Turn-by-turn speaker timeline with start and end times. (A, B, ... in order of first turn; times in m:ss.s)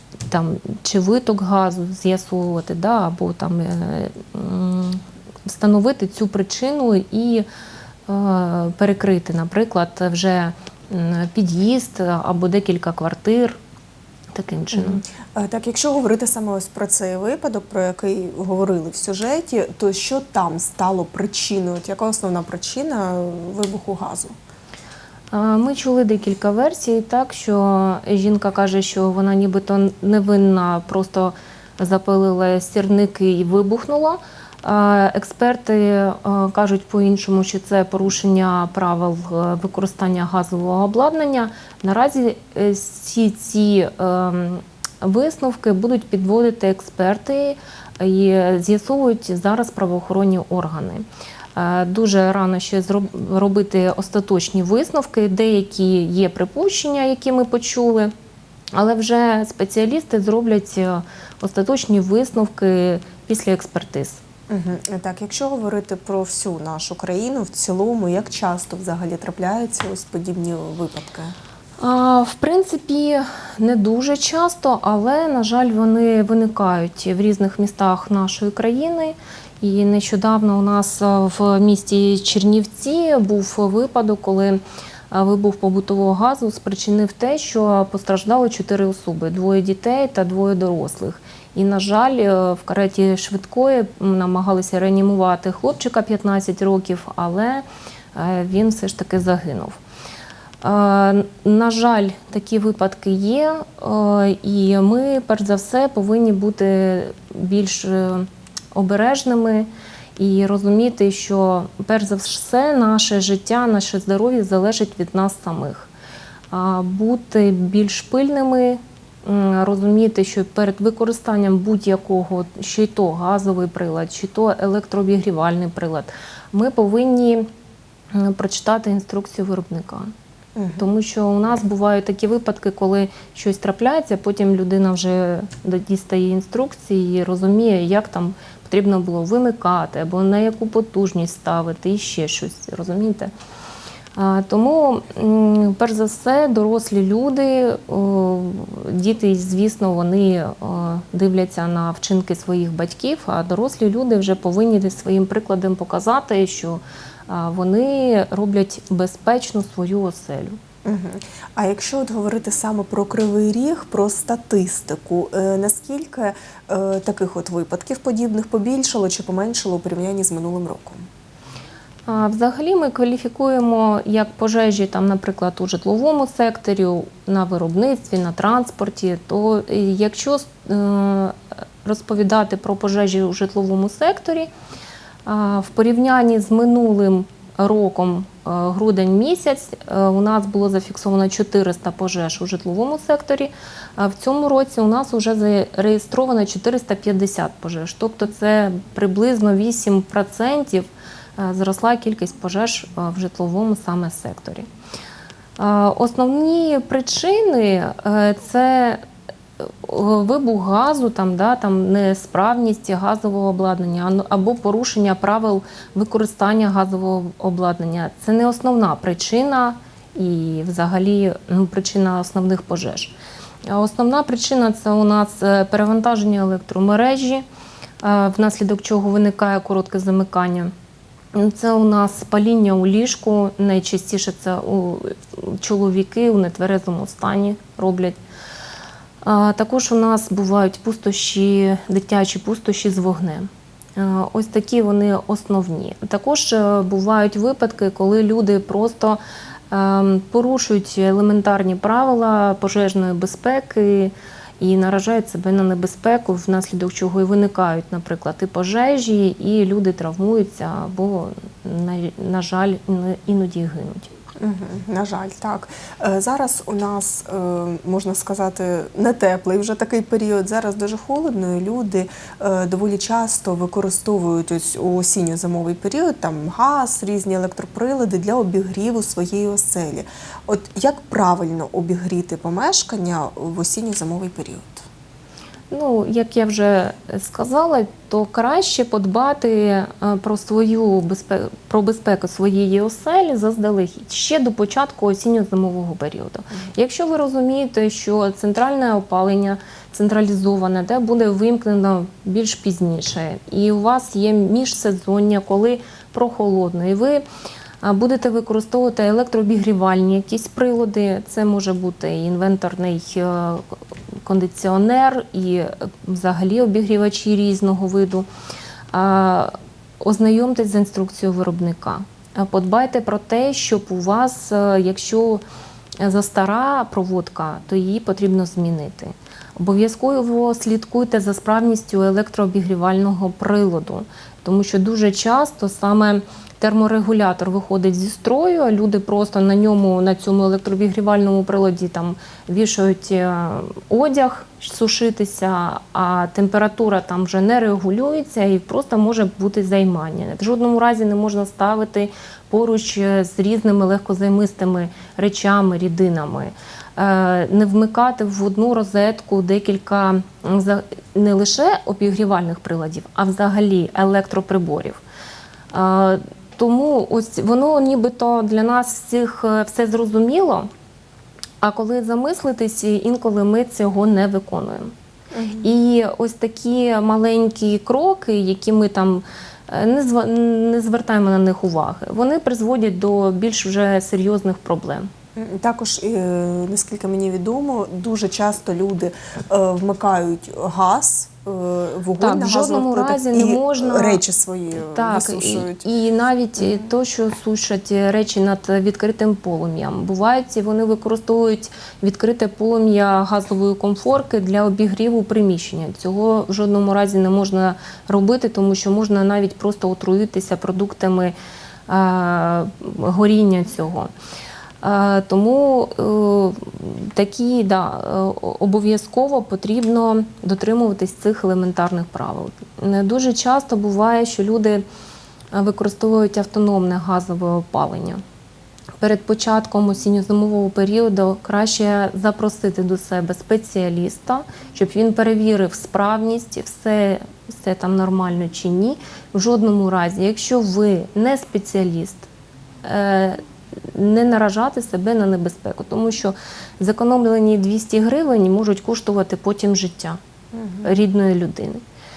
0:00.3-0:07.4 A
0:08.1-0:13.6 A
0:14.3-0:15.0 A
0:14.7-0:24.4 B
0:25.3-0:51.0 A
0:51.6-0:58.1 A
0:58.8-1:04.2 A
1:04.5-1:11.4 B
1:11.8-1:24.6 A
1:25.1-1:39.8 A
1:40.6-1:55.9 A
1:56.5-2:07.5 A
2:08.1-2:10.1 A
2:10.6-2:10.9 B
2:10.8-2:23.3 A
2:24.2-2:40.6 A
2:40.8-2:51.0 B
2:52.1-3:04.5 A
3:05.2-3:20.9 A
3:21.4-3:24.6 A
3:25.6-3:29.0 A
3:29.6-3:43.1 A
3:43.7-3:47.4 A
3:48.0-3:50.7 A
3:51.3-3:58.2 A
3:59.2-4:09.2 A
4:09.7-4:24.1 A
4:24.4-4:44.9 B
4:45.7-5:07.2 A
5:07.8-5:13.6 A
5:14.2-5:18.2 A
5:18.9-5:25.4 A
5:26.0-6:05.0 A
6:05.7-6:10.7 A
6:11.6-6:14.9 A
6:15.3-6:15.8 B
6:15.6-6:25.1 A
6:25.4-6:35.9 B
6:32.2-6:34.2 A
6:34.9-6:51.3 A
6:36.6-6:36.9 B
6:51.9-6:54.1 A
6:54.8-7:04.8 A
7:05.5-7:08.2 A
7:09.0-7:22.3 A
7:22.8-7:30.2 A
7:30.5-7:30.9 B
7:30.8-7:31.8 A